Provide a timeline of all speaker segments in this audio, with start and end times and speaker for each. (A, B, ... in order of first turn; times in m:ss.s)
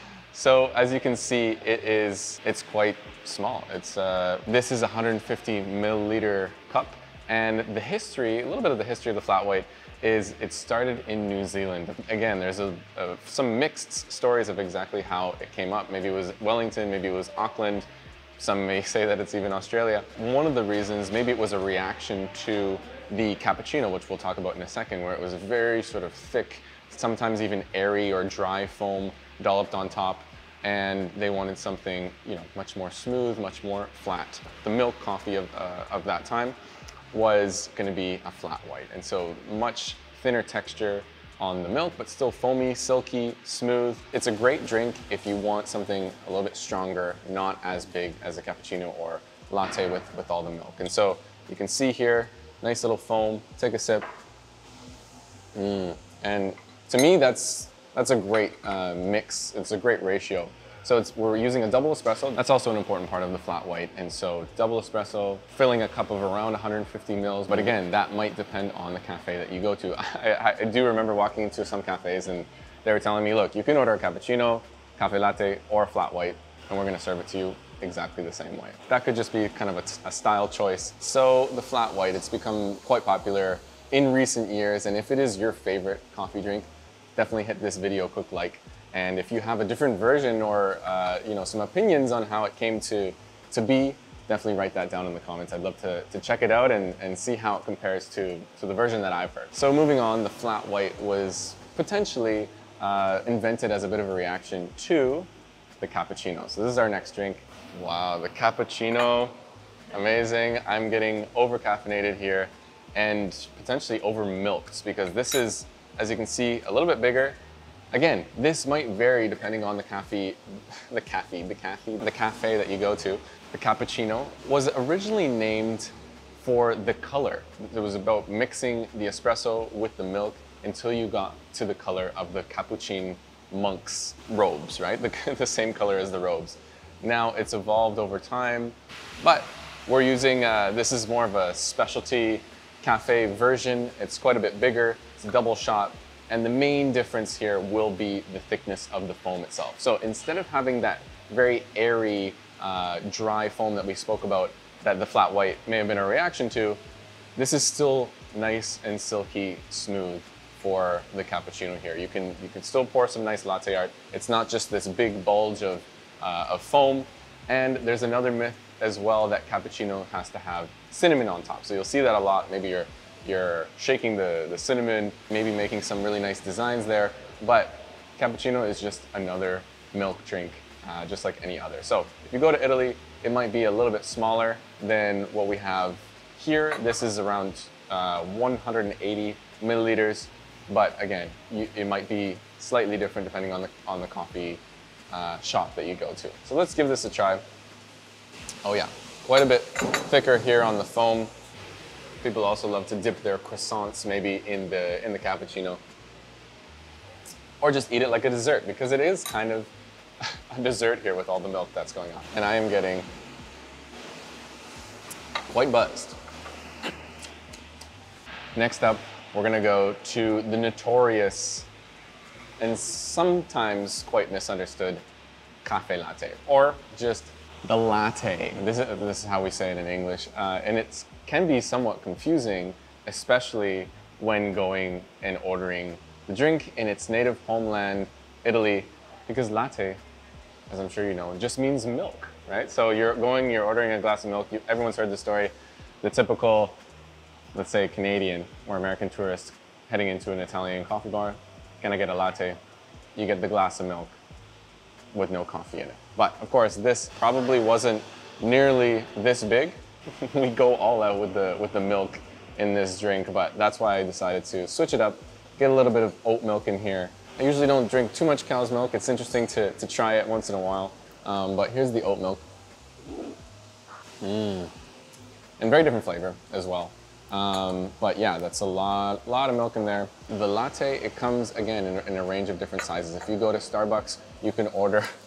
0:00.3-0:17.9 A
0:18.4-0:36.6 A
0:37.1-0:54.1 A
0:55.5-1:45.3 A
1:45.8-1:49.3 A
1:49.9-1:57.4 A
1:57.9-2:36.8 A
2:37.4-3:17.4 A
3:18.6-3:21.3 A
3:22.2-3:25.8 A
3:27.6-3:29.7 A
3:30.2-3:33.1 A
3:35.5-3:36.2 A
3:38.5-3:41.7 A
3:42.6-3:45.0 A
3:45.6-4:00.0 A
4:00.7-4:06.8 A
4:07.5-4:12.6 A
4:13.2-4:14.2 A
4:15.1-4:32.4 A
4:34.2-4:34.7 A
4:35.6-4:45.1 A